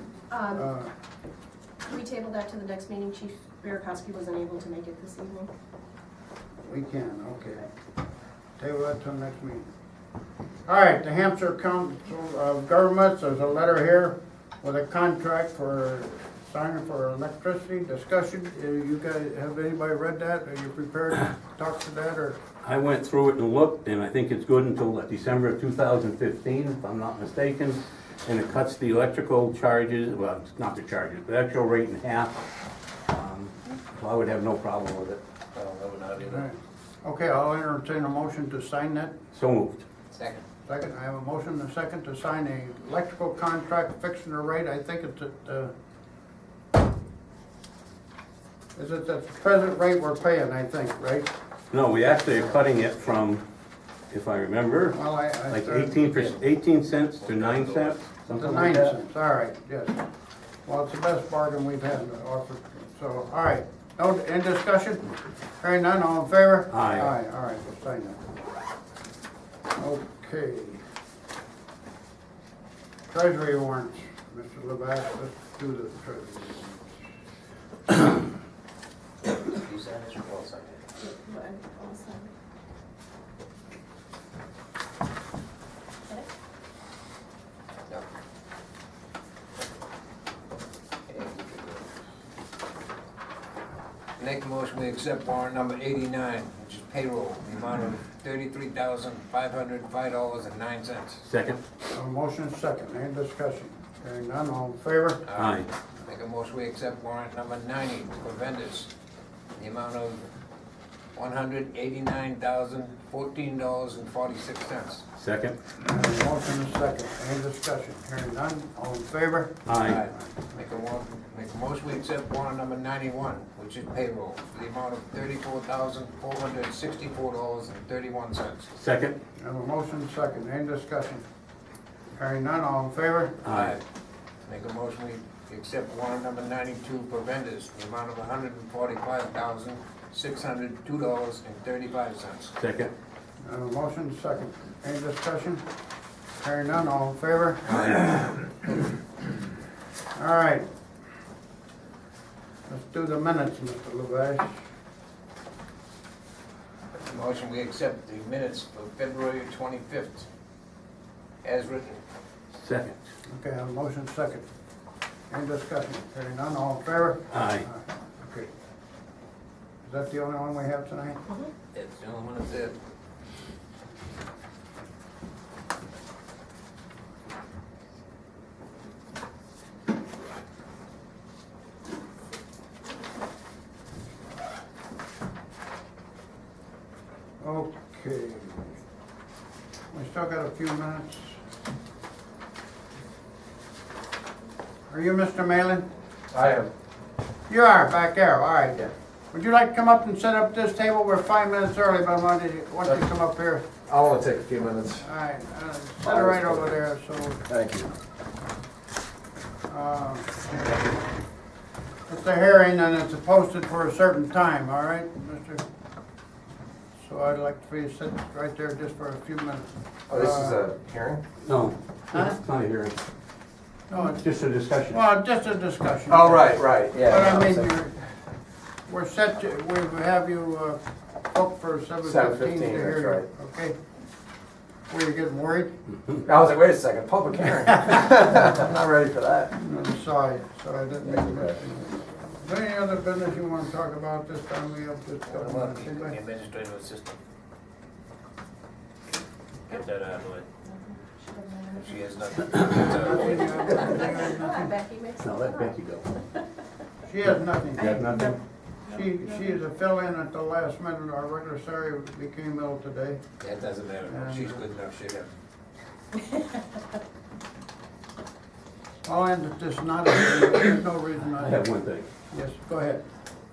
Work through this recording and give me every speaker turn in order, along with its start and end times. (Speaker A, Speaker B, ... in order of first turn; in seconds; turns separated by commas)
Speaker A: 0.3-0.7, Speaker B: 0.5-0.9, Speaker A: 1.9-5.5, Speaker B: 6.6-7.7, Speaker B: 8.6-9.7, Speaker B: 10.7-22.4, Speaker C: 22.6-32.5, Speaker C: 33.1-35.2, Speaker D: 35.5-36.5, Speaker B: 36.2-39.2, Speaker C: 39.3-39.8, Speaker D: 40.1-40.4, Speaker B: 40.7-45.7, Speaker B: 48.8-51.3, Speaker C: 51.7-53.4, Speaker C: 54.1-59.0, Speaker B: 54.9-56.1, Speaker D: 56.1-56.4, Speaker D: 57.1-58.0, Speaker B: 58.3-60.0, Speaker B: 60.6-68.3, Speaker C: 66.7-67.1, Speaker B: 69.8-70.8, Speaker B: 73.1-77.0, Speaker D: 79.5-80.8, Speaker A: 81.0-82.3, Speaker D: 91.1-91.9, Speaker D: 94.2-101.2, Speaker C: 101.2-101.6, Speaker B: 101.9-105.2, Speaker D: 105.3-108.9, Speaker C: 105.4-105.7, Speaker D: 109.6-110.3, Speaker D: 111.2-115.0, Speaker C: 115.2-115.6, Speaker B: 115.8-120.2, Speaker C: 119.7-120.0, Speaker D: 119.9-128.7, Speaker C: 128.8-129.2, Speaker B: 129.4-131.2, Speaker B: 132.2-133.4, Speaker C: 133.4-133.8, Speaker D: 133.4-133.8, Speaker D: 134.4-142.5, Speaker C: 142.6-142.9, Speaker B: 143.4-145.6, Speaker B: 146.4-148.1, Speaker B: 150.1-150.7, Speaker B: 152.7-154.6, Speaker D: 157.0-160.3, Speaker D: 161.4-162.0, Speaker C: 162.5-163.0, Speaker B: 163.3-164.4, Speaker B: 165.3-168.5, Speaker C: 167.3-167.7, Speaker B: 169.8-171.2, Speaker D: 171.7-172.8, Speaker B: 187.4-188.8, Speaker B: 189.9-191.4, Speaker B: 194.9-195.9, Speaker E: 196.3-196.7, Speaker B: 197.5-203.7, Speaker E: 203.9-205.1, Speaker B: 205.0-207.4, Speaker E: 206.0-206.8, Speaker E: 207.5-207.9, Speaker B: 209.7-210.9, Speaker B: 212.1-215.6, Speaker B: 217.0-220.6, Speaker E: 220.1-221.2, Speaker C: 221.4-223.0, Speaker B: 223.9-224.2, Speaker C: 224.0-225.0, Speaker B: 224.9-227.9, Speaker E: 226.1-227.8, Speaker B: 228.9-233.8, Speaker E: 232.0-233.3, Speaker B: 234.9-235.7, Speaker E: 236.2-239.5, Speaker B: 239.5-246.2, Speaker E: 241.0-241.6, Speaker D: 245.3-247.2, Speaker D: 249.7-250.5, Speaker A: 250.6-252.1, Speaker D: 251.8-253.8, Speaker B: 252.7-254.7, Speaker A: 253.3-255.8, Speaker C: 255.2-256.1, Speaker B: 257.1-258.0, Speaker C: 257.7-258.4, Speaker A: 257.9-258.4, Speaker B: 258.9-263.2, Speaker A: 259.3-259.6, Speaker D: 263.4-265.3, Speaker B: 264.1-264.6, Speaker B: 269.0-271.7, Speaker C: 271.2-272.1, Speaker B: 272.3-273.0